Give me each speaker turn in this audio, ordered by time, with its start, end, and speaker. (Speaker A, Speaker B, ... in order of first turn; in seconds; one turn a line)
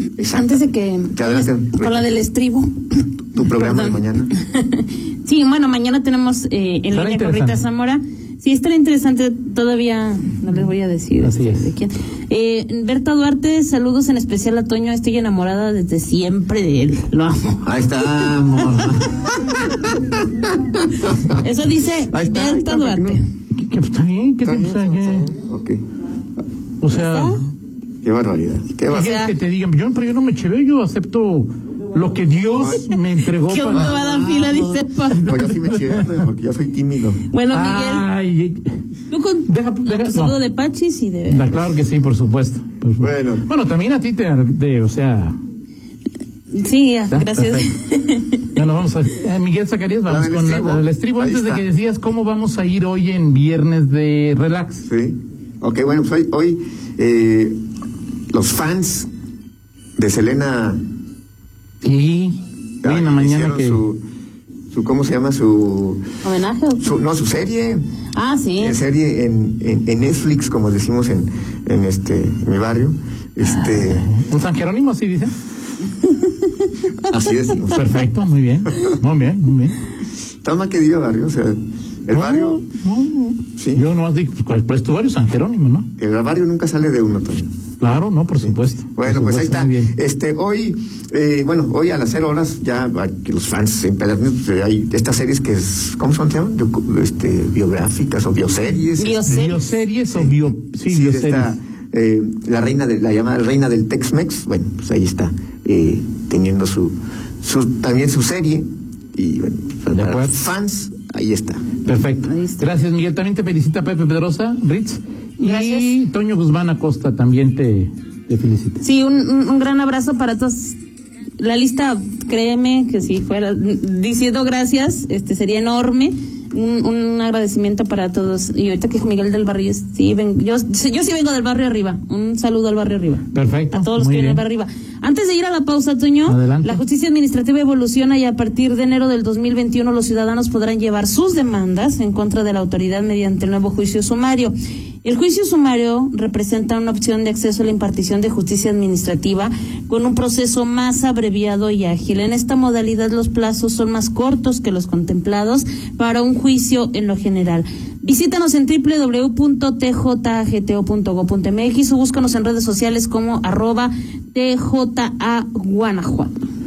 Speaker A: 0.2-0.6
Speaker B: 0.3-18.3
Speaker A: 1.1-2.1
Speaker A: 3.3-4.3
Speaker C: 6.9-7.6
Speaker C: 11.2-11.7
Speaker A: 17.6-21.3
Speaker B: 21.3-23.2
Speaker A: 22.1-23.2
Speaker C: 23.5-25.3
Speaker A: 24.4-25.8
Speaker C: 26.8-27.4
Speaker B: 26.9-27.4
Speaker A: 28.0-29.1
Speaker C: 28.9-34.0
Speaker B: 28.9-29.3
Speaker A: 32.6-32.8
Speaker B: 33.4-35.3
Speaker A: 33.7-34.6
Speaker A: 35.2-37.2
Speaker C: 35.2-36.0
Speaker B: 37.3-38.1
Speaker C: 37.5-38.7
Speaker B: 39.1-41.5
Speaker C: 39.5-40.4
Speaker C: 41.3-45.4
Speaker A: 43.0-43.5
Speaker B: 46.5-48.4
Speaker C: 47.1-47.7
Speaker C: 48.5-54.9
Speaker A: 50.1-51.6
Speaker A: 54.9-57.6
Speaker A: 58.3-59.1
Speaker A: 60.0-60.8
Speaker C: 61.8-63.8
Speaker A: 62.8-64.0
Speaker A: 64.7-66.1
Speaker B: 66.2-67.0
Speaker A: 66.8-67.8
Speaker B: 68.1-68.8
Speaker A: 68.6-74.1
Speaker C: 73.8-75.3
Speaker A: 77.1-78.0
Speaker C: 77.7-79.8
Speaker A: 80.4-82.6
Speaker C: 82.1-85.9
Speaker A: 83.6-83.8
Speaker A: 86.0-87.5
Speaker C: 87.8-89.9
Speaker A: 88.4-111.6
Speaker B: 99.0-99.5
Speaker C: 99.3-101.5
Speaker C: 109.9-110.4
Speaker C: 111.8-118.8
Speaker B: 112.2-112.7
Speaker B: 115.4-115.9
Speaker B: 118.8-120.8
Speaker B: 121.4-144.5
Speaker C: 133.3-134.4
Speaker C: 136.3-136.8
Speaker B: 145.0-166.4